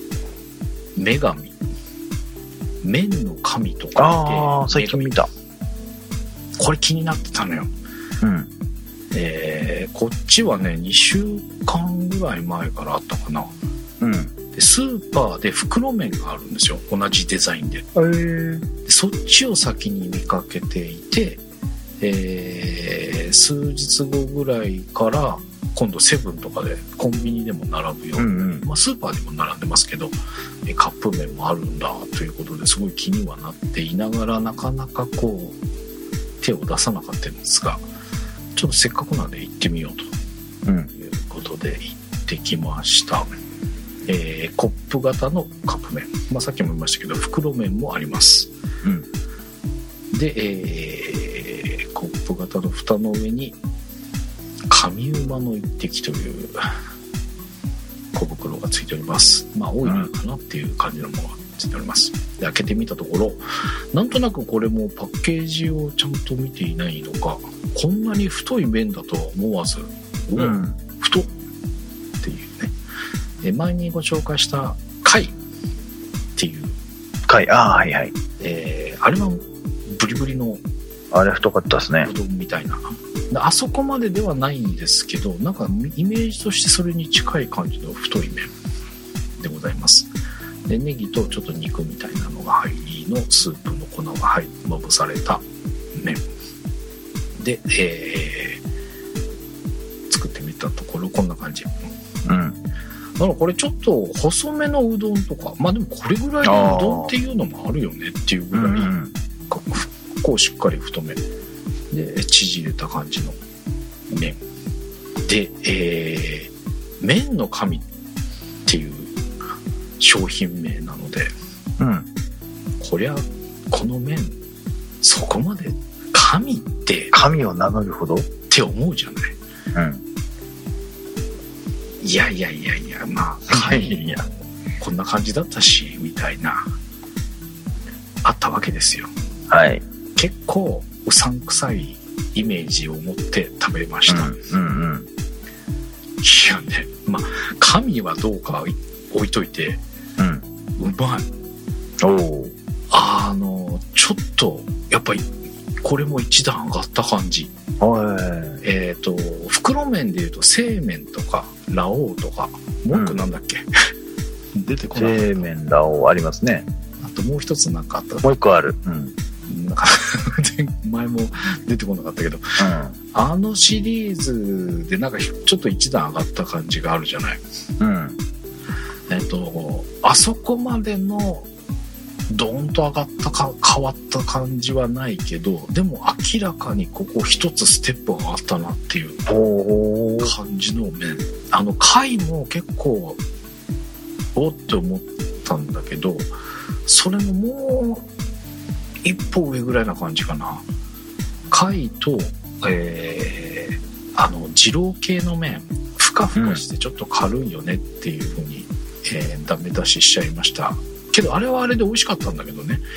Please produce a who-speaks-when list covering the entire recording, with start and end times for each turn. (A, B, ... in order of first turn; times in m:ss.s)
0:01.0-0:01.6 A
0:02.8-0:05.1 A
0:04.0-0:05.3 B
0:06.6-0:07.7 A
0:08.2-0:08.5 B
0:09.1-0:13.5 A
0:14.0-0:14.3 B
0:14.5-0:17.9 A
0:18.0-0:18.6 B
0:18.8-0:21.4 A
0:22.0-0:30.1 A
0:28.2-0:28.6 B
0:30.6-0:35.6 A
0:36.4-0:37.8 A
0:38.6-0:40.1 A
0:40.9-0:43.3 A
0:44.1-0:48.5 A
0:50.1-0:53.6 A
0:54.7-0:56.7 A
0:58.1-1:11.3 A
1:10.4-1:10.8 B
1:12.2-1:12.7 A
1:13.4-1:15.3 A
1:16.4-1:16.8 A
1:17.3-1:18.1 B
1:18.4-1:20.6 A
1:21.1-1:22.1 B
1:22.0-1:28.5 A
1:29.4-1:30.1 A
1:30.7-1:35.4 A
1:36.0-1:36.2 A
1:37.4-1:38.6 A
1:40.1-1:41.8 A
1:42.2-1:42.6 B
1:43.2-1:48.9 A
1:46.4-1:47.1 B
1:48.5-1:49.1 B
1:49.5-1:51.2 A
1:51.9-1:53.4 A
1:54.1-1:54.4 A
1:55.2-1:57.9 A
1:58.6-1:59.1 A
2:00.0-2:01.3 A
2:01.8-2:02.1 B
2:02.8-2:04.4 A
2:05.0-2:07.1 A
2:07.1-2:08.3 B
2:08.5-2:09.3 A
2:09.7-2:10.0 B
2:12.0-2:16.7 A
2:13.5-2:14.2 B
2:18.2-2:19.1 A
2:19.5-2:19.8 B
2:20.2-2:24.4 A
2:24.1-2:25.1 B
2:26.2-2:29.8 A
2:30.2-2:30.4 B
2:30.8-2:31.3 A
2:32.0-2:32.5 B
2:32.9-2:35.3 A
2:35.8-2:37.5 A
2:37.8-2:38.6 B
2:38.6-2:43.7 A
2:44.6-2:45.5 A
2:45.0-2:46.7 B
2:47.0-2:48.3 A
2:48.2-2:49.1 B
2:49.5-2:57.4 A
2:52.6-2:53.0 B
2:57.8-2:58.2 B
2:59.1-3:01.5 A
3:02.3-3:09.3 A
3:09.3-3:10.3 B
3:10.2-3:13.2 A
3:14.3-3:16.3 A
3:16.9-3:18.0 A
3:19.0-3:20.6 A
3:21.5-3:32.8 A
3:26.4-3:26.6 B